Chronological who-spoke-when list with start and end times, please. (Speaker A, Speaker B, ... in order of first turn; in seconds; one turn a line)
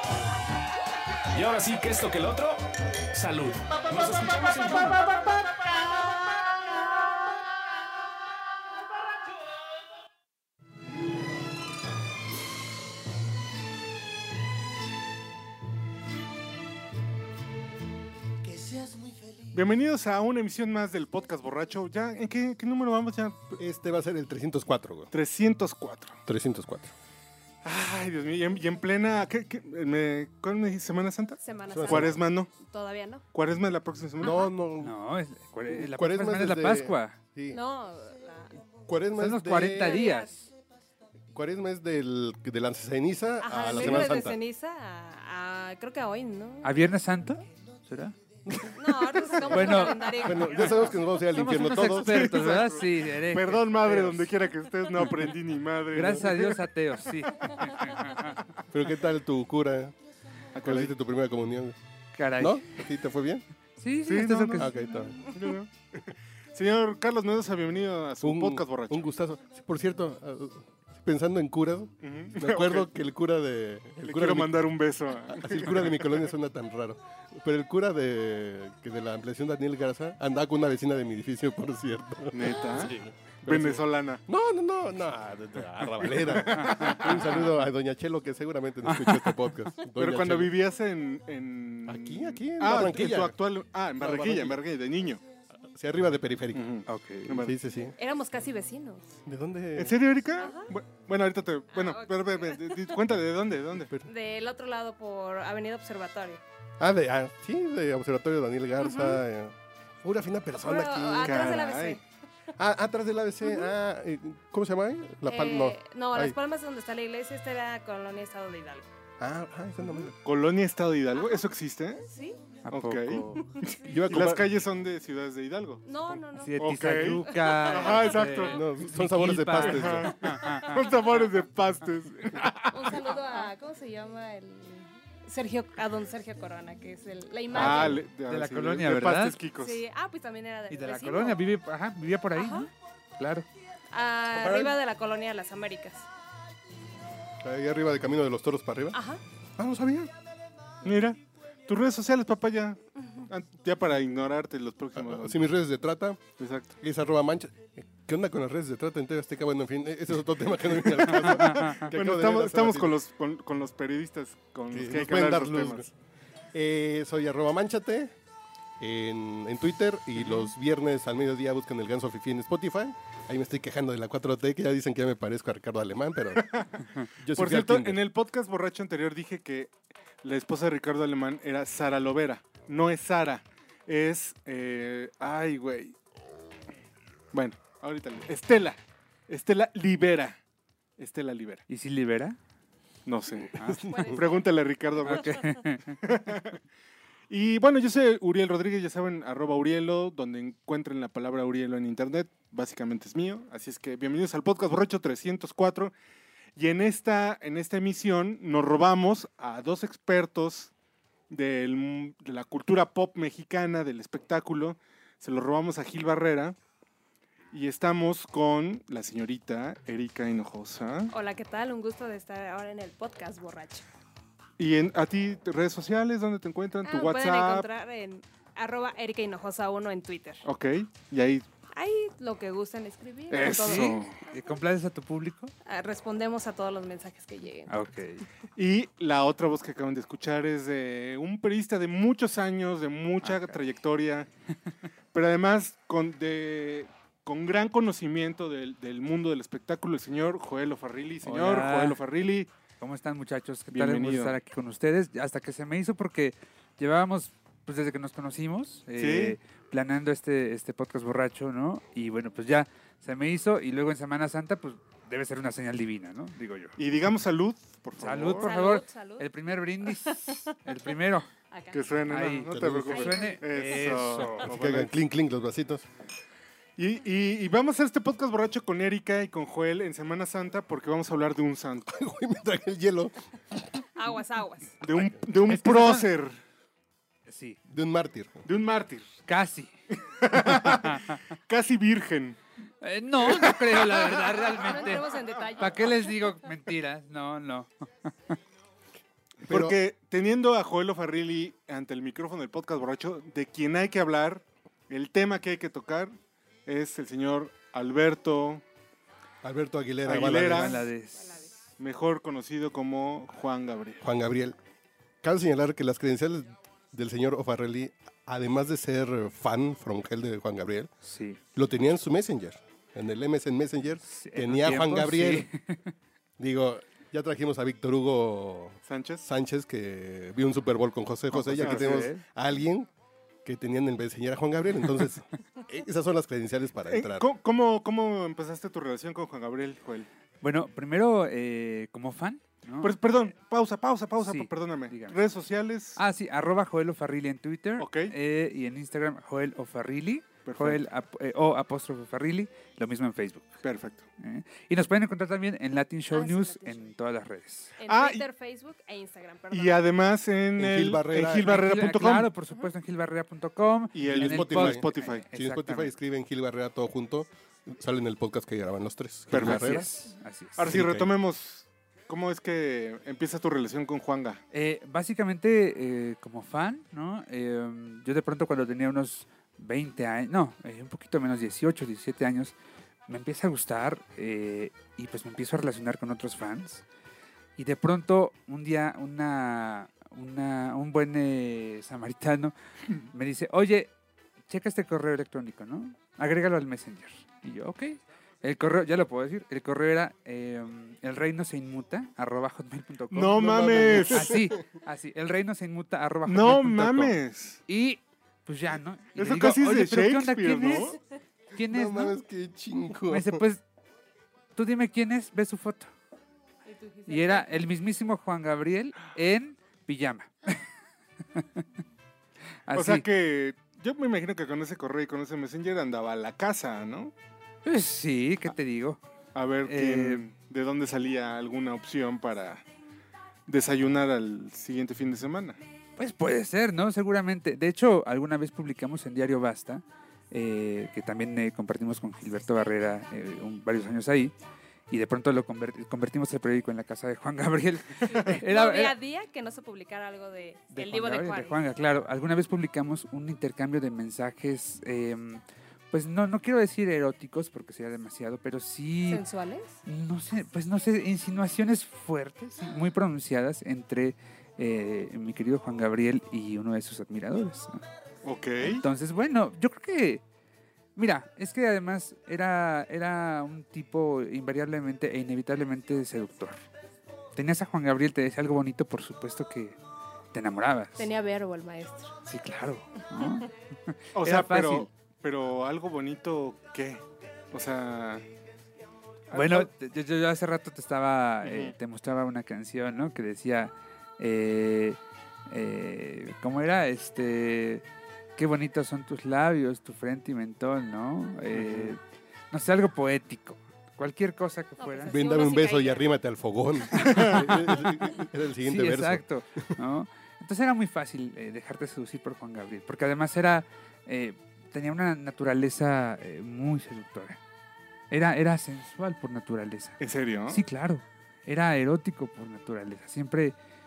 Speaker A: 1.3-5.9
Speaker B: 19.5-23.4
Speaker C: 23.5-25.1
Speaker B: 25.1-26.2
Speaker C: 26.3-26.9
Speaker B: 27.6-32.5
Speaker D: 31.4-33.2
Speaker C: 31.7-32.2
Speaker B: 33.3-34.4
Speaker C: 34.2-34.9
Speaker E: 34.8-37.1
Speaker C: 35.7-37.6
Speaker D: 37.5-38.5
Speaker C: 38.9-40.0
Speaker E: 39.1-40.5
Speaker D: 39.7-40.3
Speaker C: 41.3-44.4
Speaker D: 43.4-46.7
Speaker E: 43.8-44.1
Speaker E: 46.6-48.1
Speaker C: 48.5-52.5
Speaker D: 48.7-51.0
Speaker E: 49.5-50.3
Speaker E: 51.3-54.3
Speaker B: 51.5-56.6
Speaker E: 55.0-55.3
Speaker E: 55.9-58.3
Speaker C: 56.0-56.2
Speaker C: 58.7-59.9
Speaker B: 60.5-60.9
Speaker C: 60.5-61.8
Speaker E: 62.1-62.8
Speaker C: 62.4-63.4
Speaker E: 63.8-64.7
Speaker B: 64.0-64.7
Speaker C: 64.5-65.2
Speaker B: 65.3-69.1
Speaker C: 68.2-90.5
Speaker B: 72.0-72.9
Speaker B: 74.0-76.3
Speaker B: 82.3-84.2
Speaker B: 86.0-87.5
Speaker E: 89.0-89.3
Speaker B: 90.0-95.2
Speaker C: 91.8-93.4
Speaker C: 94.0-94.6
Speaker C: 95.7-97.9
Speaker B: 96.5-97.5
Speaker E: 96.9-97.4
Speaker D: 98.0-99.0
Speaker C: 99.2-100.0
Speaker B: 99.8-103.9
Speaker D: 100.4-100.7
Speaker D: 101.7-103.0
Speaker C: 103.8-104.1
Speaker D: 104.0-106.4
Speaker C: 106.8-111.6
Speaker D: 108.8-109.2
Speaker D: 110.5-112.0
Speaker B: 111.2-112.0
Speaker C: 112.5-116.3
Speaker D: 113.4-113.7
Speaker D: 115.2-118.9
Speaker C: 119.2-120.1
Speaker D: 119.8-120.1
Speaker B: 120.2-122.0
Speaker D: 121.1-121.4
Speaker D: 122.0-122.4
Speaker E: 122.6-123.4
Speaker B: 122.7-128.6
Speaker C: 123.8-124.5
Speaker D: 125.8-128.5
Speaker E: 126.3-130.7
Speaker C: 128.4-130.2
Speaker B: 129.6-133.1
Speaker D: 130.5-131.1
Speaker D: 132.7-138.0
Speaker B: 137.5-139.8
Speaker E: 137.5-139.4
Speaker D: 139.6-141.4
Speaker E: 140.7-143.5
Speaker D: 142.3-142.7
Speaker D: 143.9-146.1
Speaker C: 144.3-144.8
Speaker C: 147.4-149.0
Speaker D: 148.9-149.2
Speaker C: 149.6-150.1
Speaker B: 150.8-155.5
Speaker C: 154.9-156.2
Speaker B: 156.4-156.7
Speaker C: 156.8-163.0
Speaker B: 161.0-165.8
Speaker E: 161.2-161.9
Speaker C: 164.7-165.9
Speaker C: 166.5-168.1
Speaker C: 168.8-176.6
Speaker B: 176.4-176.7
Speaker C: 177.2-178.0
Speaker B: 177.3-185.9
Speaker B: 187.3-190.4
Speaker B: 191.0-191.6
Speaker E: 191.7-192.4
Speaker B: 193.1-196.6
Speaker E: 193.5-193.9
Speaker C: 193.6-194.2
Speaker D: 193.9-194.5
Speaker E: 195.0-196.0
Speaker B: 197.3-205.9
Speaker B: 206.6-210.7
Speaker B: 211.3-216.6
Speaker B: 217.5-221.1
Speaker D: 221.1-223.8
Speaker B: 224.6-227.7
Speaker D: 226.8-230.4
Speaker B: 230.4-231.4
Speaker D: 231.7-234.3
Speaker B: 233.3-234.1
Speaker E: 233.4-235.5
Speaker D: 235.6-237.7
Speaker E: 237.7-238.2
Speaker B: 238.6-244.3
Speaker E: 243.2-243.6
Speaker B: 245.1-252.5
Speaker E: 251.2-252.0
Speaker E: 252.8-266.8
Speaker B: 253.7-254.4
Speaker B: 259.0-259.4
Speaker B: 266.8-268.4
Speaker E: 268.0-271.3
Speaker D: 268.4-269.3
Speaker D: 269.8-270.4
Speaker D: 271.5-271.9
Speaker B: 271.7-274.9
Speaker E: 272.1-274.5
Speaker C: 272.5-273.1
Speaker D: 272.9-274.2
Speaker C: 274.5-275.9
Speaker B: 276.8-281.9
Speaker C: 281.9-283.6
Speaker D: 283.9-284.8
Speaker B: 284.8-286.4
Speaker C: 284.9-285.2
Speaker E: 285.5-286.0
Speaker E: 287.3-287.6
Speaker C: 287.7-288.4
Speaker B: 288.4-289.1
Speaker E: 289.3-289.7
Speaker B: 290.1-292.4
Speaker E: 290.3-291.2
Speaker E: 292.8-298.4
Speaker B: 293.2-294.4
Speaker D: 294.4-296.1
Speaker C: 299.4-299.8
Speaker B: 299.5-308.6
Speaker C: 309.4-310.8
Speaker B: 310.0-310.8
Speaker E: 310.5-311.4
Speaker D: 311.2-311.5
Speaker B: 311.8-314.0
Speaker C: 314.0-314.6
Speaker C: 315.2-320.9
Speaker E: 321.0-321.4
Speaker C: 321.5-325.5
Speaker E: 324.1-325.9
Speaker C: 326.4-332.9
Speaker B: 328.9-329.2
Speaker E: 331.3-332.2
Speaker B: 331.6-332.1
Speaker C: 333.4-337.3
Speaker B: 336.9-340.1
Speaker E: 340.4-343.0
Speaker B: 342.8-346.0
Speaker E: 344.2-345.2
Speaker E: 345.9-353.6
Speaker B: 347.8-348.1
Speaker B: 350.4-350.8
Speaker B: 353.6-354.0
Speaker E: 354.2-357.7
Speaker D: 356.1-356.9
Speaker D: 357.8-359.9
Speaker B: 357.9-358.2
Speaker B: 359.5-362.3
Speaker C: 360.6-361.6
Speaker E: 361.4-365.9
Speaker B: 363.9-365.3
Speaker C: 364.1-369.8
Speaker E: 369.3-370.8
Speaker B: 369.3-369.9
Speaker B: 370.6-374.4
Speaker C: 370.6-371.1
Speaker E: 374.5-382.5
Speaker E: 383.1-386.8
Speaker E: 387.6-393.9
Speaker E: 394.5-407.1
Speaker B: 403.1-404.4
Speaker C: 403.4-404.6
Speaker B: 406.2-407.6
Speaker E: 407.7-411.0
Speaker B: 409.2-411.0
Speaker E: 411.5-412.1
Speaker C: 411.7-413.4
Speaker E: 413.1-413.6
Speaker E: 414.5-415.9
Speaker D: 416.6-417.6
Speaker E: 417.1-420.6
Speaker E: 421.3-421.6
Speaker E: 422.7-423.0
Speaker B: 422.7-427.1
Speaker E: 427.6-429.0
Speaker B: 429.3-432.6
Speaker E: 429.6-430.2
Speaker B: 433.5-435.6
Speaker E: 436.0-444.3
Speaker E: 444.9-448.9
Speaker D: 448.1-451.6
Speaker E: 450.7-459.2
Speaker D: 459.1-459.8
Speaker E: 459.9-467.8
Speaker B: 468.2-468.8
Speaker E: 468.6-470.2
Speaker E: 470.9-476.6
Speaker E: 477.3-479.8
Speaker E: 480.3-481.1
Speaker D: 481.0-482.1
Speaker E: 482.2-484.9
Speaker B: 484.1-488.2
Speaker B: 489.3-489.7
Speaker E: 489.3-497.8
Speaker B: 491.4-491.7
Speaker E: 498.4-505.1
Speaker B: 501.5-501.9
Speaker D: 504.8-506.1
Speaker C: 505.1-509.7
Speaker E: 507.0-507.9
Speaker B: 507.1-507.4
Speaker E: 508.6-517.4
Speaker E: 518.1-523.5
Speaker B: 520.0-520.6